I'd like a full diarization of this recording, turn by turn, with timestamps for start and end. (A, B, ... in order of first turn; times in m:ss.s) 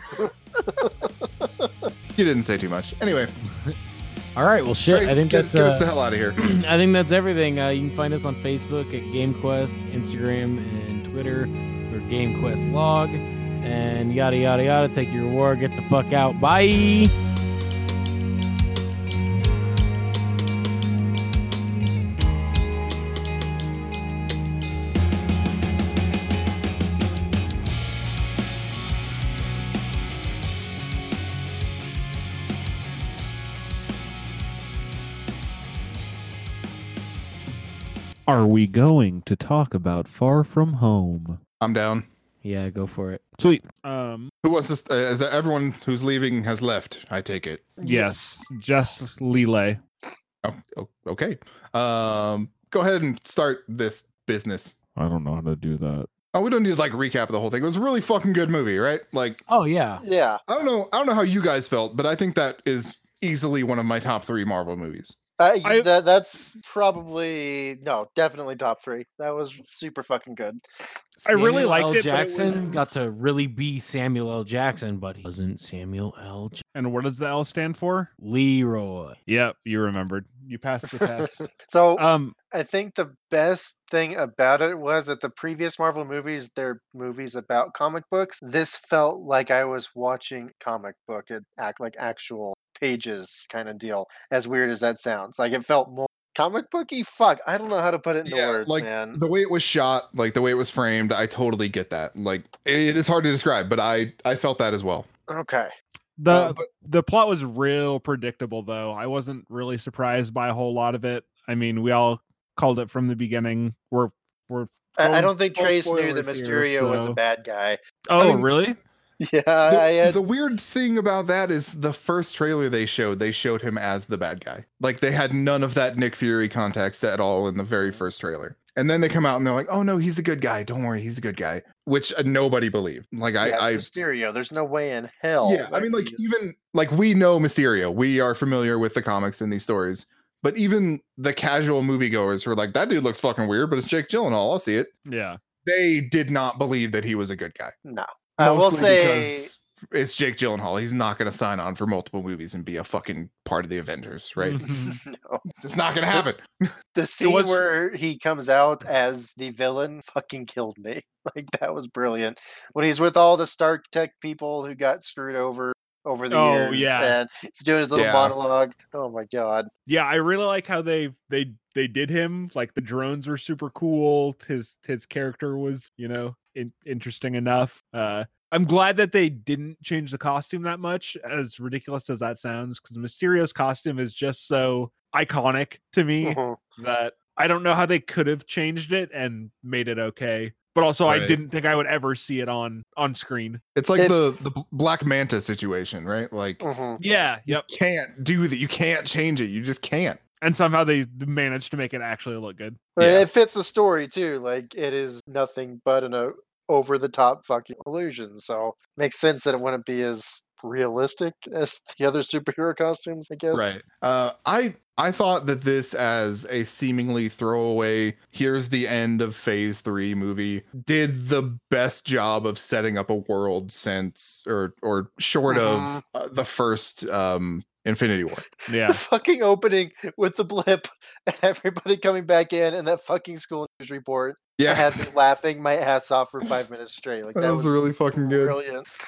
0:00.2-0:01.9 A
0:02.2-0:03.3 B
0:04.4-0:17.1 C
0:04.8-0:06.4 B
0:38.3-0:41.4 D
0:41.6-0:42.0 B
0:42.4-0:43.2 C
0:43.4-0:44.3 D
0:44.4-0:48.1 B
0:47.8-0:49.8 D
0:50.4-0:54.8 B
0:55.0-0:56.1 D
0:56.3-0:59.4 B
0:59.5-1:00.0 C
1:00.0-1:00.4 A
1:00.5-1:05.2 B
1:05.4-1:10.6 A
1:11.2-1:16.6 C
1:11.2-1:12.7 D
1:16.7-1:18.1 D
1:18.2-1:19.2 C
1:19.3-1:22.3 D
1:21.2-1:39.2 A
1:38.2-1:45.1 B
1:45.3-1:45.7 A
1:46.2-1:57.2 D
1:46.3-1:46.6 B
1:55.0-1:57.8 A
1:58.1-1:58.8 D
1:58.2-1:58.5 B
1:59.2-2:00.2 A
1:59.7-2:13.8 B
2:13.4-2:16.2 A
2:15.4-2:24.9 B
2:25.0-2:25.4 D
2:25.6-2:27.7 B
2:27.8-2:29.5 A
2:28.4-2:34.6 B
2:34.4-2:35.0 D
2:34.6-2:35.4 A
2:35.5-2:36.7 B
2:36.9-2:49.7 A
2:37.2-2:37.6 D
2:46.3-2:47.2 D
2:47.9-2:48.4 B
2:49.9-3:13.6 D
3:06.2-3:06.6 A
3:11.1-3:11.4 B
3:13.7-3:16.6 B
3:16.6-3:17.0 A
3:17.0-3:17.7 D
3:17.5-3:20.2 B
3:20.4-3:22.9 D
3:23.0-3:33.7 A
3:23.0-3:23.3 B
3:33.5-3:48.4 B
3:45.5-3:46.0 A
3:48.7-3:49.0 D
3:48.7-3:58.9 A
3:54.6-3:55.0 B
3:57.3-3:58.6 B